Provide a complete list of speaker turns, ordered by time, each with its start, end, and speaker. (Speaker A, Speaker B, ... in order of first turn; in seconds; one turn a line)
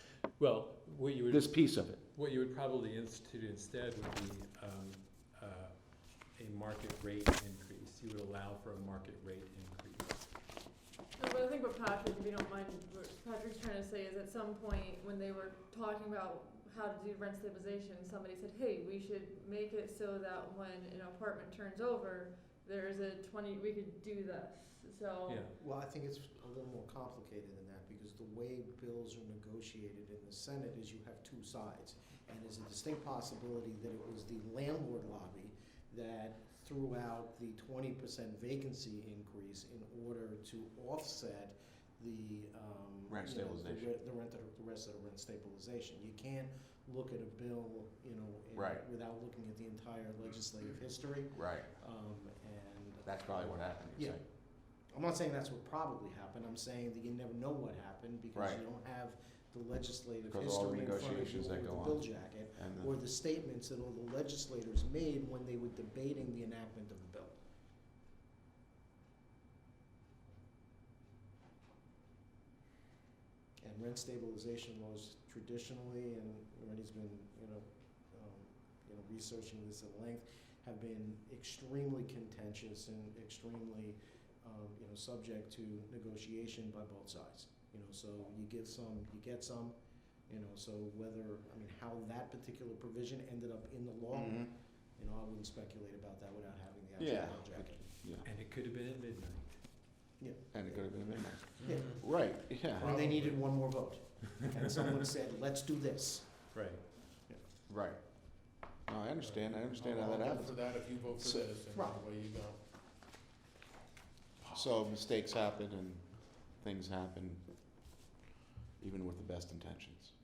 Speaker A: 0.4-10.3
Speaker B: 1.3-2.0
Speaker C: 11.2-25.5
Speaker A: 25.3-25.6
Speaker D: 25.6-67.4
Speaker B: 43.1-43.9
Speaker B: 48.5-48.8
Speaker B: 51.3-51.7
Speaker B: 53.0-54.2
Speaker B: 58.3-58.6
Speaker B: 60.3-62.9
Speaker D: 73.6-89.8
Speaker D: 90.3-97.9
Speaker B: 94.1-94.5
Speaker B: 97.0-98.2
Speaker A: 98.2-99.7
Speaker D: 100.2-106.7
Speaker B: 100.5-102.8
Speaker E: 101.6-103.5
Speaker A: 106.5-106.9
Speaker B: 107.7-110.6
Speaker E: 109.4-112.6
Speaker B: 111.2-111.5
Speaker D: 111.7-112.0
Speaker B: 114.5-117.5
Speaker B: 118.8-120.1